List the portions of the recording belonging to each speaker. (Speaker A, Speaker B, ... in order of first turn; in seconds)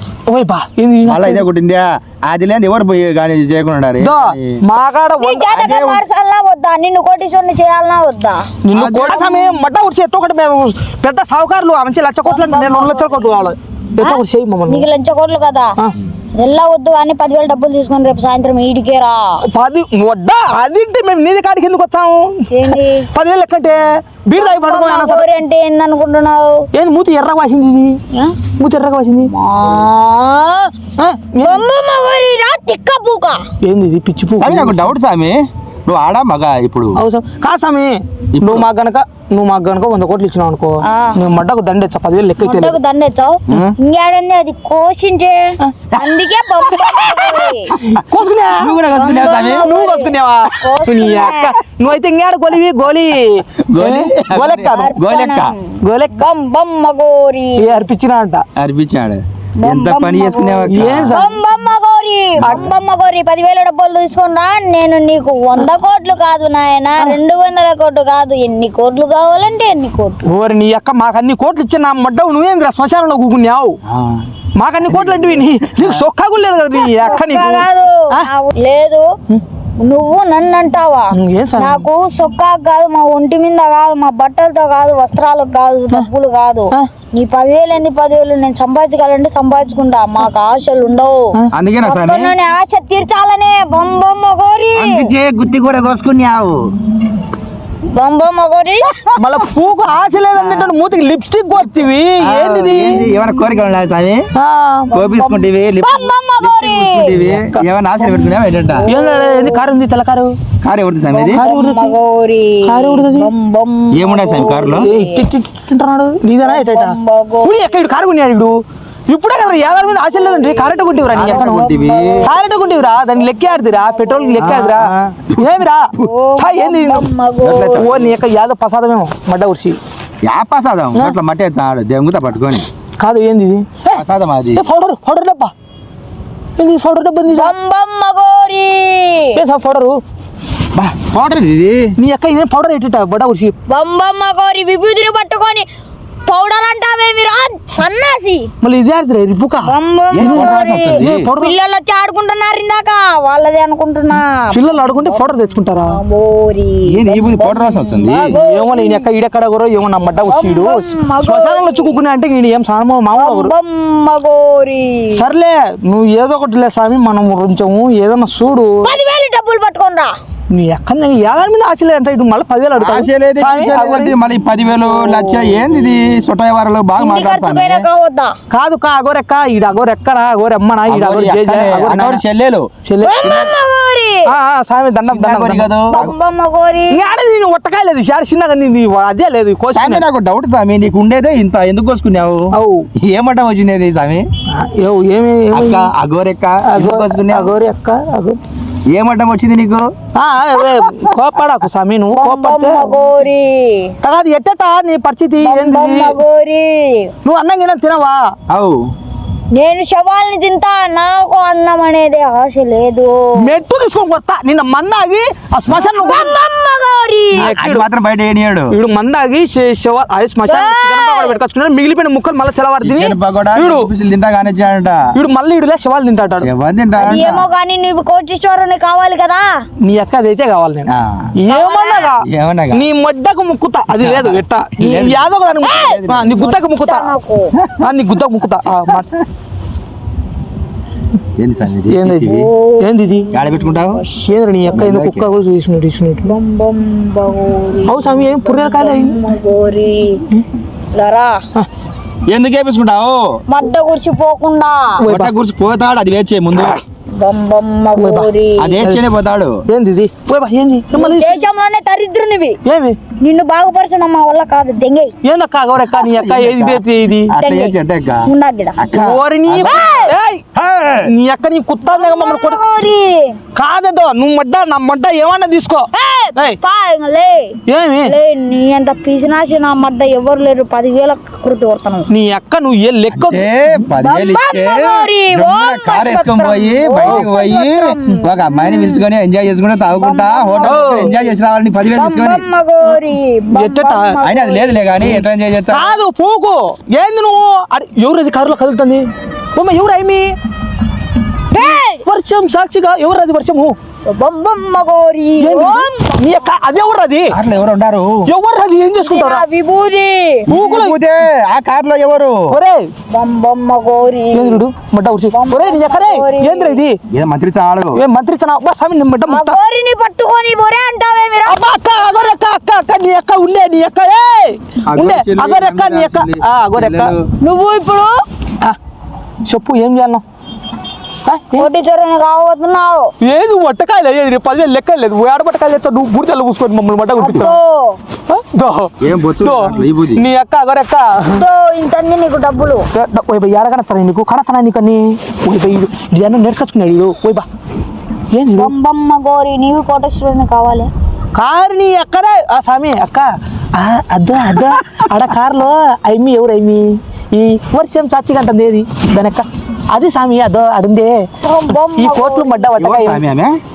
Speaker A: 0.3-1.4, 4.0-5.5, 8.6-14.9, 19.5-25.3, 26.7-28.0, 28.6-29.3, 31.0-31.6, 33.6-34.9, 37.0-42.8, 46.7-47.3, 47.9-48.7, 49.6-54.9, 55.8-56.2, 57.6-58.4, 60.7-61.4, 62.4-62.7, 70.2-73.8, 74.5-78.3, 81.1-81.8, 99.2-103.0, 104.3-104.9, 107.3-107.6, 108.9-110.3, 111.3-111.9, 112.7-113.3, 114.7-121.6, 122.3-127.0, 127.8-129.8, 133.0-134.0, 134.6-135.5, 136.6-137.5, 139.3-140.0, 142.0-143.5, 148.6-151.5, 154.5-155.9, 158.3-163.5, 165.1-168.9, 170.5-174.1, 174.8-175.6, 178.5-182.2, 182.8-183.3, 184.3-185.7, 186.9-190.0, 192.5-192.9, 194.5-195.9, 196.6-198.4, 200.1-203.0, 204.0-206.2, 207.2-208.3, 213.4-216.3, 217.4-217.9, 218.7-223.9, 225.1-226.5, 229.8-237.1, 237.8-239.1, 241.9-243.2, 244.2-246.3, 247.8-249.2, 255.0-255.3, 258.0-258.3, 259.7-261.4, 262.6-263.0, 265.2-267.3, 269.0-270.4, 271.0-272.6, 273.5-276.6, 277.7-278.1, 282.1-283.4, 290.6-291.1, 293.5-294.2, 295.0-300.3, 301.5-303.7, 305.4-307.4, 308.2-309.4, 310.5-310.9, 312.5-312.9, 314.3-317.0, 317.9-319.6, 321.4-327.1, 329.4-330.2, 331.2-331.7, 333.2-337.6, 338.3-341.4, 342.9-347.4, 348.3-348.7, 351.3-363.2
Speaker B: 1.1-4.6, 5.5-6.0, 8.7-9.2, 34.4-37.0, 38.3-38.7, 43.5-43.7, 45.9-46.2, 47.8-48.0, 48.5-49.7, 53.6-55.5, 58.6-61.2, 62.4-62.7, 73.8-74.3, 74.9-76.0, 91.5-92.3, 94.7-96.7, 100.4-100.7, 102.2-104.2, 104.9-108.9, 110.6-111.4, 113.9-114.9, 121.1-122.2, 124.4-125.5, 127.4-128.2, 130.2-132.7, 133.9-134.6, 140.7-141.9, 150.1-151.3, 156.9-158.3, 172.8-177.8, 180.9-182.7, 183.2-183.5, 185.1-186.1, 189.7-194.2, 195.5-197.5, 198.9-199.9, 208.5-208.9, 217.3-218.7, 222.8-225.1, 226.4-227.5, 230.9-231.3, 232.2-232.8, 233.9-236.4, 238.9-239.2, 241.4-242.5, 243.3-244.0, 244.7-245.3, 252.3-253.3, 255.1-256.8, 258.6-259.6, 265.9-268.2, 268.8-271.1, 283.1-292.4, 294.2-296.0, 307.3-308.3, 310.5-312.6, 317.1-318.0, 324.9-327.3, 339.0-340.2, 362.8-363.6
Speaker C: 5.2-8.5, 9.0-9.6, 12.2-15.7, 16.4-19.2, 22.5-23.1, 24.4-26.6, 28.1-28.4, 29.3-30.7, 31.4-33.4, 40.9-41.2, 42.4-47.8, 48.9-51.5, 54.5-57.9, 59.6-70.2, 76.7-79.1, 79.8-91.2, 91.8-95.1, 97.9-99.0, 104.9-107.2, 108.0-109.7, 111.1-115.3, 116.4-117.7, 119.9-124.5, 126.0-127.9, 137.3-139.4, 143.7-145.7, 146.2-148.5, 149.7-159.1, 160.3-162.0, 163.1-165.2, 168.8-170.1, 177.0-178.3, 183.0-184.2, 185.9-187.0, 202.1-203.9, 205.4-207.1, 209.5-213.6, 215.8-217.5, 220.5-221.4, 227.0-229.6, 231.5-232.1, 235.6-237.5, 242.2-244.4, 246.2-250.2, 250.9-251.3, 253.5-255.0, 257.2-258.8, 260.9-262.6, 263.2-265.1, 267.4-268.8, 269.6-270.1, 271.9-273.4, 275.9-282.1, 284.0-289.0, 290.0-291.4, 291.9-294.9, 301.5-302.0, 304.1-305.9, 309.0-310.5, 313.1-314.6, 315.3-316.8, 319.3-322.1, 327.4-328.1, 331.6-333.1, 337.2-338.0, 341.3-342.9, 348.6-350.9, 361.4-362.8